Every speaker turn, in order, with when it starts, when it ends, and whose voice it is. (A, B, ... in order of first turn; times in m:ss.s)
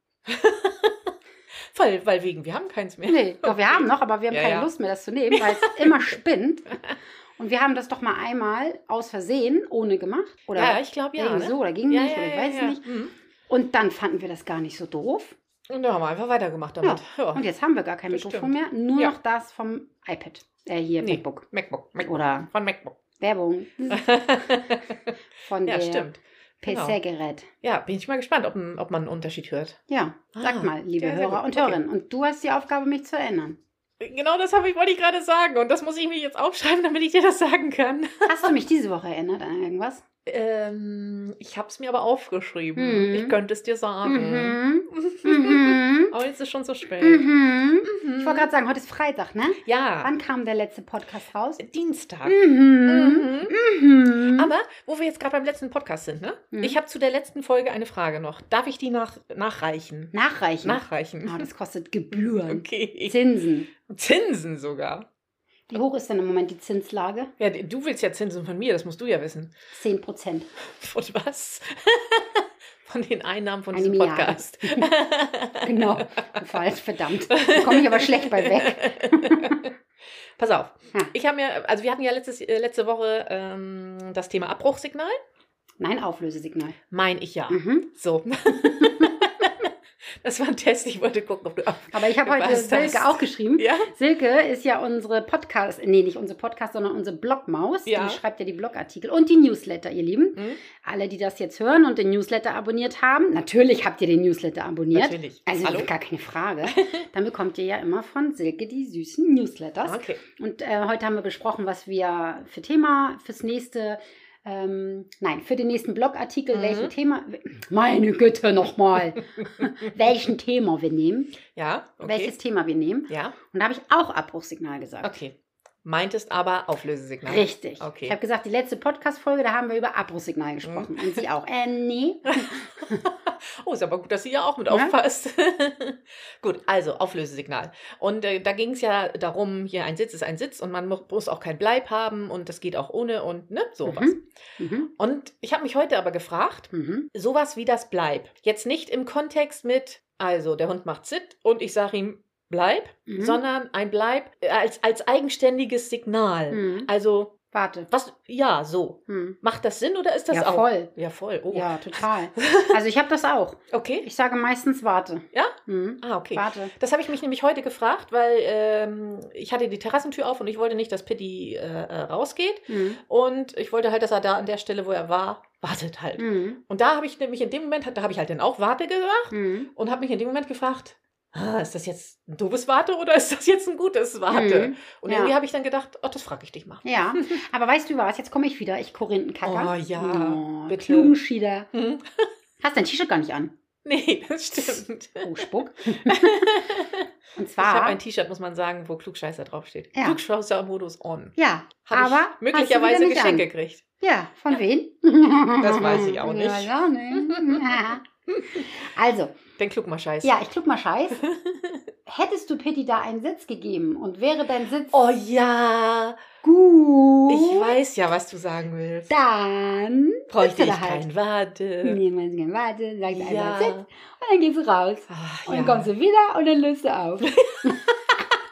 0:00.2-0:01.1 A
0:01.7-0:04.7 A
0:03.0-0:06.8 B
0:05.3-0:06.2 A
0:07.4-0:12.8 B
0:10.5-0:13.1 A
0:13.5-0:15.4 B
0:15.7-0:17.4 A
0:16.8-0:21.5 B
0:18.1-0:19.1 A
0:21.0-0:22.9 A
0:22.0-0:22.5 B
0:23.2-0:24.3 B
0:23.9-0:25.1 A
0:25.5-0:26.1 B
0:25.6-0:27.0 A
0:26.6-0:27.5 B
0:27.6-0:29.8 A
0:29.9-0:33.6 B
0:30.3-0:31.8 A
0:34.0-0:38.5 A
0:38.2-0:40.0 B
0:40.2-0:47.2 A
0:42.8-0:43.4 B
0:44.0-0:46.1 B
0:47.0-0:51.6 B
0:47.8-0:48.5 A
0:49.6-0:50.1 A
0:51.6-0:53.5 A
0:52.2-0:54.5 B
0:54.3-1:01.5 A
0:56.5-0:56.8 B
1:00.1-1:03.7 B
1:02.2-1:03.2 A
1:03.8-1:05.0 A
1:05.7-1:07.3 B
1:07.4-1:09.5 A
1:09.7-1:10.5 B
1:10.7-1:16.1 A
1:13.7-1:14.9 B
1:15.6-1:19.6 B
1:17.3-1:19.7 A
1:20.4-1:25.2 A
1:25.8-1:26.8 B
1:26.9-1:33.9 A
1:27.5-1:27.9 B
1:28.5-1:29.5 B
1:31.9-2:01.4 B
1:37.8-1:38.2 A
1:40.4-1:40.6 A
1:44.9-1:45.9 A
1:46.6-1:47.0 A
1:49.8-1:50.2 A
1:56.5-1:56.9 A
2:01.5-2:02.3 A
2:02.0-2:05.1 B
2:03.1-2:03.4 A
2:05.0-2:08.2 A
2:07.3-2:13.0 B
2:10.6-2:11.2 A
2:12.3-2:24.1 A
2:14.7-2:14.9 B
2:23.8-2:24.9 B
2:25.0-2:37.3 A
2:26.7-2:27.1 B
2:33.1-2:33.4 B
2:36.5-2:36.9 B
2:37.5-2:37.9 B
2:37.9-2:42.8 A
2:39.1-2:39.4 B
2:40.3-2:40.9 B
2:41.5-2:46.7 B
2:43.7-2:44.0 A
2:45.3-3:07.4 A
2:52.7-2:53.0 B
2:56.2-2:56.6 B
2:59.3-2:59.7 B
3:04.3-3:05.3 B
3:06.8-3:11.7 B
3:09.4-3:11.1 A
3:11.7-3:12.3 A
3:12.6-3:13.5 B
3:13.8-3:15.4 A
3:14.6-3:16.5 B
3:16.0-3:17.1 A
3:17.4-3:18.0 B
3:17.6-3:21.3 A
3:19.9-3:20.2 B
3:21.4-3:23.5 B
3:21.8-3:23.8 A
3:24.0-3:29.4 B
3:25.6-3:28.7 A
3:29.6-3:30.4 A
3:30.2-3:31.2 B
3:31.2-3:31.9 A
3:32.0-3:35.1 B
3:34.9-3:36.2 A
3:36.4-3:37.8 B
3:37.3-3:39.1 A
3:39.1-3:41.0 B
3:40.3-3:42.0 A
3:41.8-3:47.9 B
3:43.0-3:43.9 A
3:45.1-3:45.9 A
3:47.3-3:48.2 A